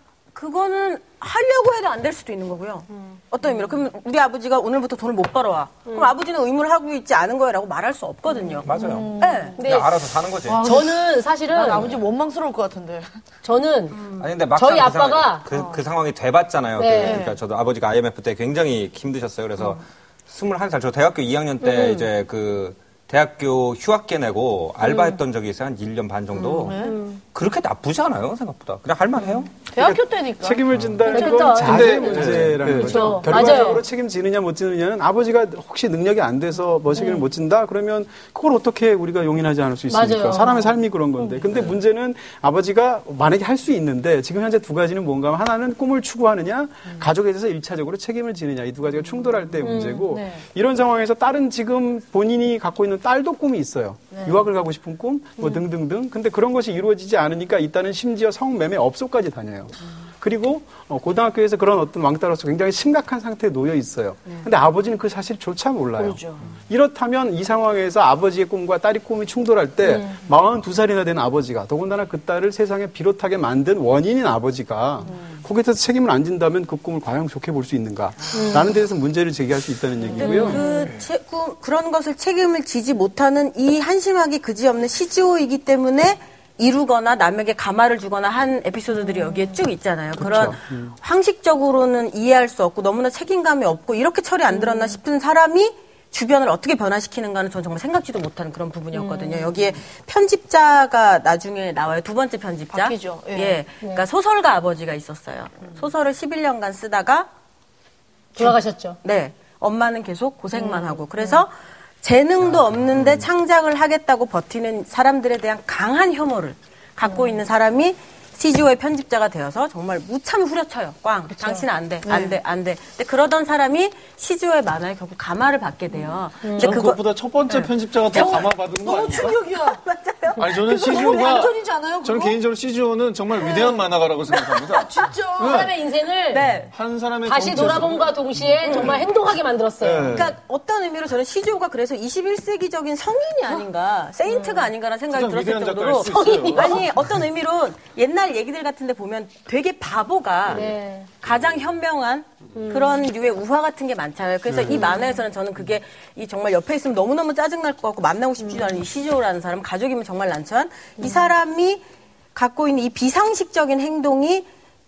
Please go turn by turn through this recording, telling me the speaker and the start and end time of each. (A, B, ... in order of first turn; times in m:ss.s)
0:00.3-0:08.7 A
0:03.4-0:03.7 B
0:05.8-0:06.1 B
0:08.4-0:09.6 C
0:08.6-0:10.6 D
0:09.2-0:09.6 A
0:09.6-0:09.9 B
0:10.5-0:13.2 C
0:10.5-0:11.9 B
0:11.7-0:12.0 D
0:13.4-0:14.0 B
0:13.9-0:14.3 A
0:14.2-0:26.8 D
0:14.5-0:15.4 B
0:15.5-0:15.8 C
0:16.8-0:17.2 B
0:17.0-0:17.4 C
0:21.6-0:22.1 B
0:24.8-0:25.1 B
0:26.3-0:27.0 C
0:26.8-0:27.2 B
0:27.3-0:29.5 D
0:29.6-0:32.3 C
0:29.8-1:20.6 E
0:31.1-0:33.8 B
0:31.6-0:33.4 F
0:33.4-0:33.8 C
0:37.0-0:37.3 C
0:39.9-0:40.8 B
0:41.2-0:41.5 C
0:49.2-0:50.4 C
0:49.6-0:50.1 B
0:54.1-0:54.4 C
1:06.0-1:06.5 C
1:15.0-1:15.4 C
1:18.3-1:18.7 B
1:20.1-1:20.6 C
1:20.2-1:20.6 B
1:20.2-1:47.3 A
1:20.6-1:21.0 F
1:30.2-1:30.9 E
1:34.5-1:34.9 C
1:38.9-1:39.5 B
1:42.7-1:43.6 C
1:43.8-1:44.0 B
1:48.4-1:49.0 B
1:48.4-2:08.5 A
1:50.6-1:51.2 C
2:01.3-2:01.6 B
2:02.0-2:02.4 C
2:06.4-2:06.8 B
2:06.6-2:09.4 F
2:08.2-2:09.8 C
2:09.1-2:11.3 A
2:10.4-2:15.7 F
2:10.7-2:12.4 C
2:13.4-2:13.7 C
2:14.4-2:15.6 C
2:15.4-2:16.4 B
2:16.3-2:16.7 A
2:16.7-2:19.0 F
2:17.2-2:20.2 B
2:18.6-2:19.0 A
2:19.8-2:20.3 F
2:20.1-2:41.8 A
2:25.1-2:27.0 F
2:26.1-2:26.8 B
2:30.5-2:31.1 B
2:32.5-2:33.0 B
2:34.6-2:35.2 B
2:38.4-2:38.7 B
2:41.0-2:41.3 B
2:42.3-2:44.5 A